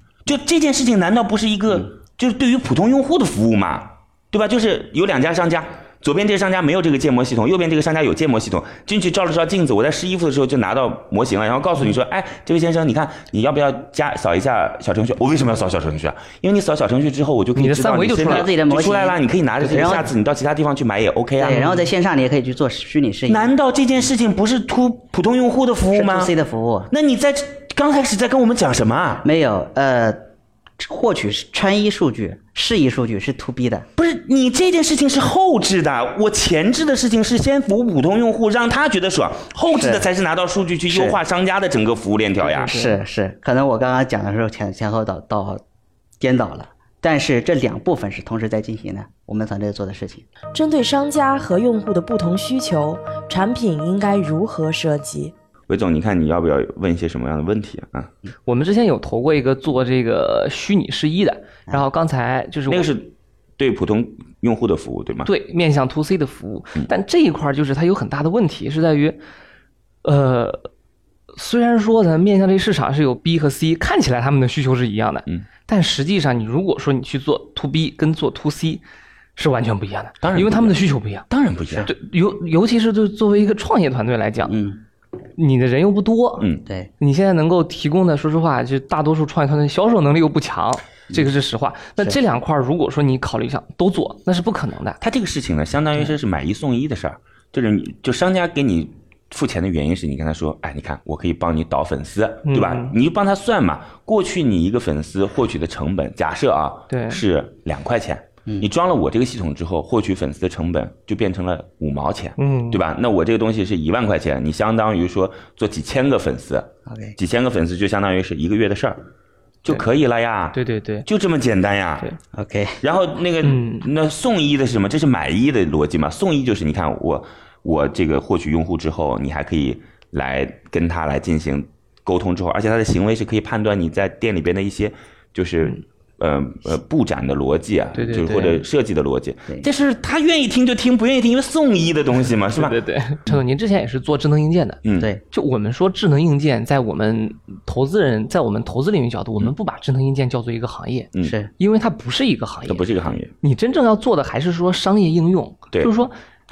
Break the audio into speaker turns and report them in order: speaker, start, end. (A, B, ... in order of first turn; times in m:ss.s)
0:00.3-0:21.7 A
0:17.6-0:18.5 B
0:18.2-0:20.1 C
0:21.4-0:23.5 C
0:23.3-0:26.3 A
0:25.9-0:26.9 C
0:26.9-0:29.2 A
0:29.2-0:30.3 C
0:30.8-0:33.9 C
0:34.0-0:42.8 A
0:39.7-0:40.0 C
0:40.9-0:41.2 C
0:42.4-0:43.0 B
0:42.7-0:45.6 C
0:46.2-0:50.2 C
0:50.5-0:55.3 D
0:55.7-0:58.1 A
0:58.5-1:02.9 B
1:02.7-1:05.3 A
1:05.2-1:09.2 B
1:10.0-1:10.7 B
1:11.3-1:18.8 B
1:19.4-1:21.2 B
1:20.2-1:21.9 A
1:21.9-1:24.6 B
1:24.5-1:24.8 C
1:25.4-1:26.5 B
1:27.0-1:35.0 B
1:35.0-1:59.0 A
1:42.5-1:43.0 B
1:46.9-1:47.2 B
1:52.4-1:52.8 B
1:56.9-1:57.2 C
1:59.6-2:02.1 A
2:00.5-2:01.1 B
2:02.3-2:02.8 C
2:02.8-2:22.8 A
2:03.4-2:03.9 B
2:18.0-2:18.6 B
2:22.5-2:24.8 B
2:24.8-2:25.1 A
2:25.3-2:32.9 B
2:31.2-2:31.5 C
2:32.7-2:33.3 A
2:33.4-2:36.1 B